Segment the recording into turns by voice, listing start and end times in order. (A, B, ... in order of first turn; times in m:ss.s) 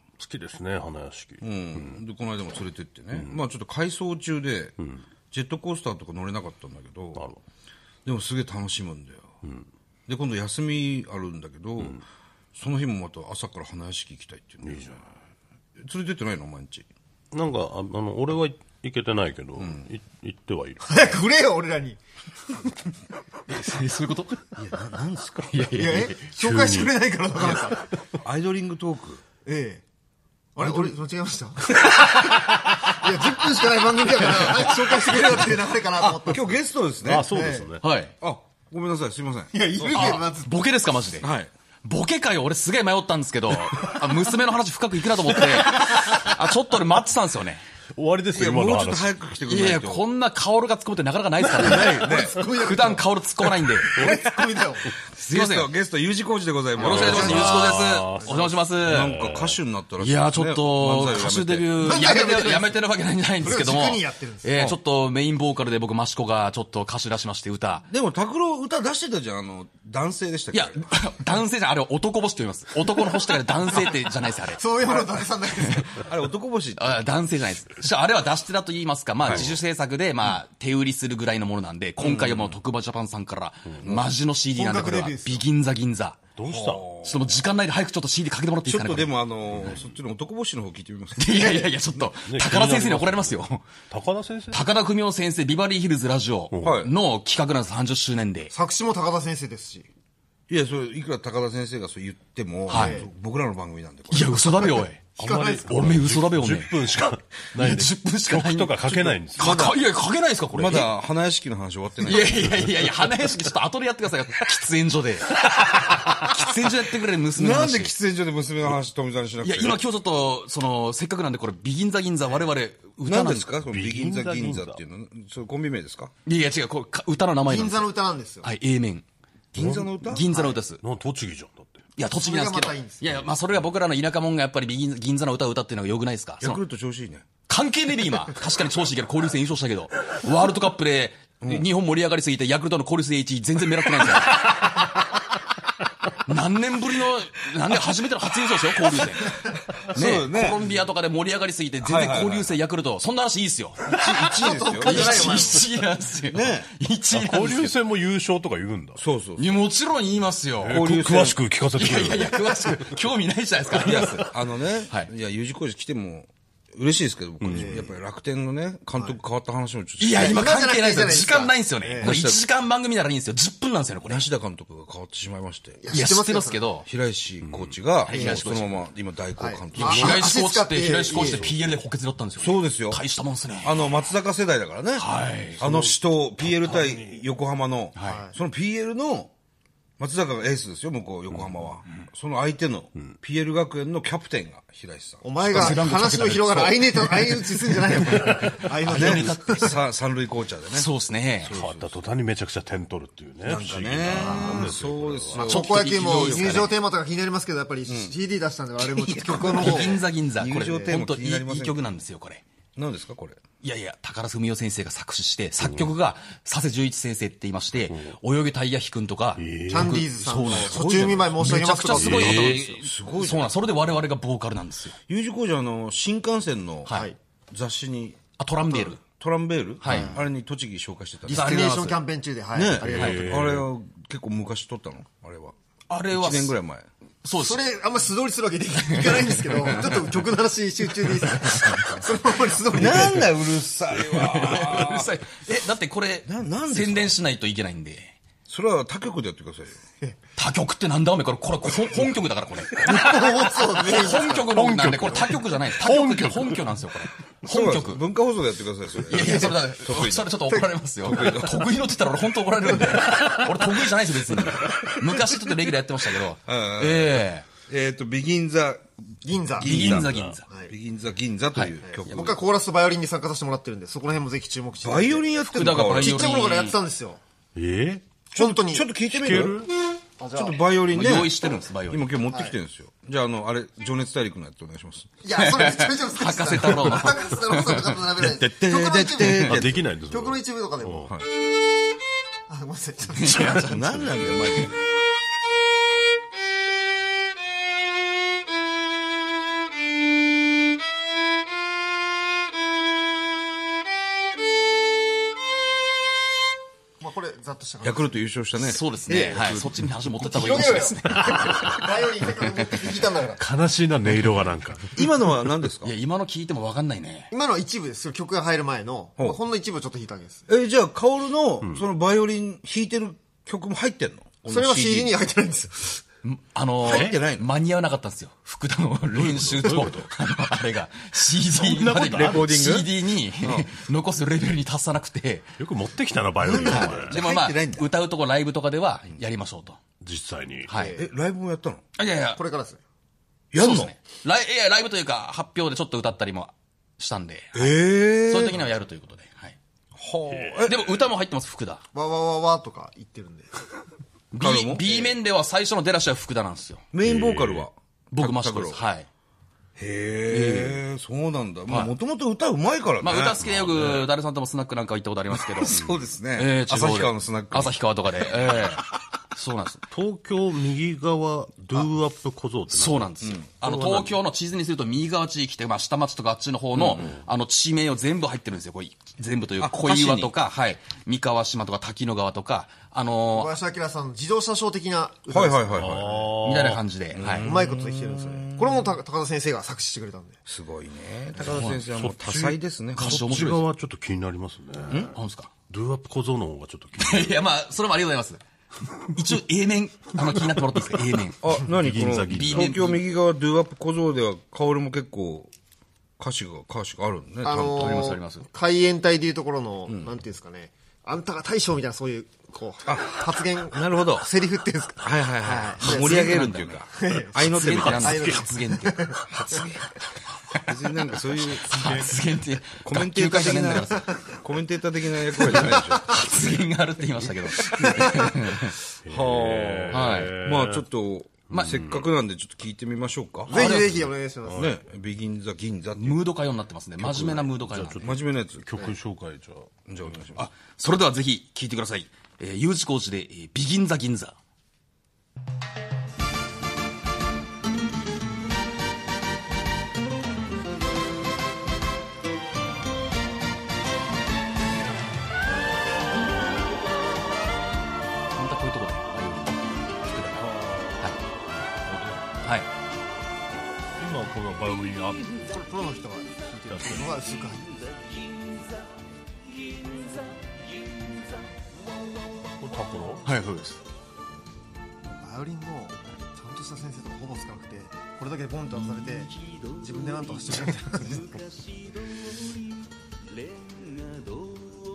0:00.2-0:02.0 A
0:01.4-0:04.8 B
0:03.1-0:03.4 A
0:05.3-0:07.2 B
0:08.0-0:09.3 B
0:10.1-0:12.0 B
0:12.5-0:15.0 B
0:14.6-0:14.9 A
0:15.8-0:16.9 B
0:17.3-0:21.2 A
0:19.6-0:19.9 B
0:20.8-0:22.0 C
0:23.5-0:24.5 D
0:24.5-0:25.8 B
0:25.5-0:26.3 D
0:25.7-0:27.9 C
0:26.3-0:26.9 A
0:27.4-0:29.2 B
0:29.4-0:29.8 C
0:30.6-0:36.6 C
0:30.6-0:30.9 B
0:31.9-0:32.7 D
0:34.3-0:35.4 D
0:36.3-0:37.3 B
0:37.0-0:37.8 A
0:37.2-0:37.8 C
0:37.8-0:38.1 D
0:38.2-0:39.5 B
0:39.5-0:40.6 C
0:39.9-0:41.3 D
0:41.2-0:41.5 B
0:41.8-0:47.6 D
0:48.0-0:49.1 A
0:48.3-0:50.0 B
0:49.4-0:54.0 D
0:51.6-0:53.0 C
0:51.7-0:52.4 B
0:53.9-0:54.9 C
0:54.0-0:54.2 B
0:55.1-0:55.7 D
0:55.3-0:57.7 B
0:56.8-0:58.6 C
0:56.8-0:58.3 A
0:56.8-0:59.1 D
0:58.8-1:02.0 B
0:58.8-0:59.6 A
1:00.0-1:07.9 D
1:01.8-1:02.7 C
1:03.4-1:04.8 C
1:07.9-1:10.8 B
1:10.5-1:15.0 D
1:13.7-1:16.0 C
1:15.6-1:15.9 D
1:15.9-1:17.0 B
1:16.8-1:26.3 D
1:19.2-1:19.5 B
1:19.3-1:19.5 A
1:22.0-1:22.5 B
1:23.8-1:24.1 B
1:24.5-1:25.4 C
1:26.4-1:26.8 A
1:26.5-1:27.3 B
1:27.0-1:29.8 D
1:28.6-1:31.2 B
1:31.2-1:33.6 D
1:32.2-1:34.6 A
1:34.5-1:38.5 D
1:36.5-1:36.8 A
1:36.6-1:36.9 B
1:38.5-1:39.9 C
1:40.5-1:44.8 B
1:42.7-1:43.0 D
1:42.7-1:43.1 C
1:44.1-1:45.0 D
1:45.2-1:49.5 A
1:45.2-1:46.0 C
1:45.7-1:46.8 D
1:47.5-1:48.8 D
1:48.8-1:49.8 B
1:49.4-1:50.9 D
1:50.5-1:52.7 B
1:52.0-1:57.9 D
1:52.4-1:53.1 A
1:55.8-1:56.2 B
1:57.3-1:59.8 B
1:59.4-2:03.4 D
2:03.0-2:06.1 B
2:03.6-2:04.8 A
2:06.2-2:09.0 D
2:07.4-2:08.5 C
2:09.5-2:10.2 B
2:09.6-2:10.0 A
2:10.1-2:10.8 D
2:10.3-2:10.6 C
2:10.8-2:11.8 A
2:12.0-2:16.6 D
2:12.1-2:13.2 C
2:16.4-2:17.2 B
2:17.5-2:24.9 D
2:21.4-2:21.6 B
2:26.2-2:37.7 D
2:29.9-2:30.6 B
2:31.8-2:32.5 B
2:34.0-2:35.6 C
2:34.0-2:35.6 B
2:36.3-2:36.7 B
2:37.1-2:39.0 A
2:39.0-2:39.5 B
2:39.4-2:41.0 D
2:40.6-2:43.0 A
2:40.6-2:41.4 B
2:41.7-2:44.3 D
2:43.7-2:44.3 A
2:43.9-2:50.4 B
2:47.4-2:47.8 A
2:47.5-2:47.9 C
2:50.0-2:54.2 D
2:50.1-2:52.2 C
2:52.0-2:52.4 B
2:54.0-2:55.8 B
2:55.8-2:56.6 C
2:55.9-2:56.9 D
2:56.8-3:00.1 B
2:57.4-2:57.7 A
2:58.0-2:58.8 D
2:58.1-2:58.5 C
2:59.4-3:01.5 C
2:59.7-3:04.0 D
3:01.2-3:01.6 A
3:02.4-3:03.0 B
3:03.6-3:09.3 B
3:05.0-3:05.6 D
3:05.6-3:07.2 A
3:07.9-3:08.2 D
3:08.0-3:08.3 C
3:10.0-3:15.8 B
3:15.2-3:19.7 C
3:15.5-3:19.8 D
3:18.9-3:20.9 B
3:20.7-3:21.5 D
3:21.4-3:22.0 B
3:21.5-3:25.5 A
3:23.4-3:26.7 B
3:24.1-3:24.7 C
3:25.3-3:31.0 C
3:25.4-3:26.8 D
3:27.9-3:28.1 B
3:28.8-3:32.4 D
3:29.4-3:31.8 B
3:32.8-3:33.4 B
3:33.6-3:45.0 D
3:39.4-3:40.0 A
3:39.7-3:42.8 C
3:40.5-3:41.2 B
3:41.9-3:42.8 A
3:42.8-3:43.5 B
3:45.1-3:48.2 B
3:46.9-3:47.2 C
3:48.4-3:49.0 D
3:49.0-3:51.7 B
3:49.8-3:50.2 D
3:49.9-3:50.2 C
3:51.2-3:53.3 C
3:51.3-3:52.0 D
3:52.5-3:55.5 B
3:52.8-3:53.7 A
3:55.9-3:56.6 D
3:56.1-3:56.9 B
3:57.2-3:57.6 D
3:57.3-4:03.4 C
3:58.8-4:00.2 D
4:01.0-4:02.0 D
4:02.7-4:05.1 B
4:03.9-4:08.2 D
4:06.2-4:07.1 B
4:08.5-4:09.8 B
4:10.4-4:18.0 D
4:12.8-4:14.5 C
4:14.5-4:16.6 A
4:17.5-4:20.3 B
4:19.1-4:27.5 D
4:19.1-4:19.6 C
4:20.5-4:20.7 C
4:21.0-4:21.7 B
4:26.4-4:30.1 B
4:29.2-4:29.9 C
4:29.6-4:30.4 D
4:29.9-4:30.4 A
4:30.7-4:32.4 B
4:31.5-4:32.3 D
4:31.8-4:35.3 C
4:34.8-4:36.4 B
4:35.4-4:36.8 D
4:35.9-4:37.2 C
4:37.6-4:38.0 A
4:38.3-4:38.8 C
4:38.4-4:39.7 B
4:39.0-4:39.7 A
4:40.2-4:40.6 C
4:40.3-4:45.1 B
4:40.9-4:42.1 D
4:42.3-4:42.5 C
4:45.2-4:51.1 C
4:45.3-4:48.0 D
4:48.2-4:49.8 B
4:49.2-4:51.1 A
4:52.5-4:53.8 C
4:53.2-4:54.7 D
4:53.6-4:54.8 B
5:07.0-5:08.1 C
5:07.8-5:09.7 B
5:08.6-5:11.9 D
5:09.1-5:09.5 C
5:10.2-5:13.4 C
5:12.4-5:12.8 D
5:13.4-5:15.0 A
5:14.9-5:15.9 B
5:15.8-5:17.3 D
5:17.3-5:20.4 C
5:20.5-5:25.2 B
5:24.5-5:26.0 C
5:26.2-5:35.5 D
5:26.8-5:27.5 B
5:29.1-5:30.1 A
5:31.5-5:32.6 A
5:32.0-5:32.9 B
5:33.4-5:33.7 B
5:35.6-5:37.2 A
5:36.4-5:37.9 B
5:36.5-5:39.8 D
5:40.0-5:40.7 A
5:40.7-5:41.0 D
5:40.7-5:41.0 C
5:40.9-5:41.8 B
5:42.0-5:42.4 D
5:42.3-5:42.8 C
5:43.5-5:43.9 B
5:43.6-5:49.6 D
5:47.5-5:48.6 B
5:49.9-5:50.8 B
5:50.3-5:50.8 A
5:50.6-5:51.8 D
5:51.9-5:53.7 C
5:54.3-5:56.8 D
5:54.4-5:55.1 B
5:56.9-5:58.8 B
5:57.0-5:57.6 A
5:58.1-5:59.1 D
5:59.8-6:03.4 B
6:00.3-6:00.8 D
6:01.7-6:01.9 D
6:03.0-6:05.8 D
6:03.4-6:04.1 A
6:05.6-6:07.8 B
6:06.3-6:09.8 D
6:09.9-6:13.2 A
6:12.7-6:23.5 D
6:13.2-6:14.0 B
6:16.7-6:17.2 B
6:19.6-6:20.3 B
6:23.3-6:26.3 C
6:25.3-6:26.1 B
6:25.8-6:26.8 A
6:26.4-6:27.5 D
6:27.1-6:28.9 B
6:27.4-6:30.4 C
6:30.4-6:33.3 B
6:31.4-6:35.2 A
6:31.4-6:31.8 D
6:33.0-6:33.6 D
6:35.1-6:35.5 D
6:35.7-6:37.4 A
6:37.0-6:38.4 D
6:39.0-6:41.4 D
6:41.2-6:43.0 A
6:41.4-6:45.5 B
6:42.3-6:43.0 D
6:46.2-6:48.0 B
6:47.4-6:56.3 C
6:47.6-6:48.5 D
6:52.8-6:54.3 B
6:55.0-6:58.3 B
6:55.7-6:56.9 D
6:56.9-6:59.7 C
6:57.4-6:59.1 D
6:57.7-6:58.4 A
6:59.3-6:59.9 B
7:00.6-7:01.7 B
7:01.6-7:04.2 D
7:01.7-7:02.1 A
7:02.8-7:06.3 B
7:04.0-7:04.3 C
7:05.4-7:08.8 D
7:05.4-7:06.0 C
7:07.7-7:08.2 C
7:07.9-7:08.2 B
7:09.0-7:10.8 A
7:09.1-7:14.0 B
7:09.9-7:10.3 D
7:11.5-7:12.0 A
7:13.5-7:14.0 D
7:13.5-7:14.7 C
7:13.6-7:14.7 A
7:14.5-7:16.2 B
7:16.0-7:18.1 D
7:17.0-7:19.7 A
7:18.0-7:18.7 B
7:19.9-7:20.4 B
7:20.4-7:24.4 D
7:38.3-7:40.5 D
7:41.9-7:42.2 A
7:44.0-7:45.3 A
7:45.5-7:47.7 C
7:46.7-7:47.1 A
7:52.6-7:53.2 A
7:53.2-7:53.8 D
7:55.2-8:01.4 C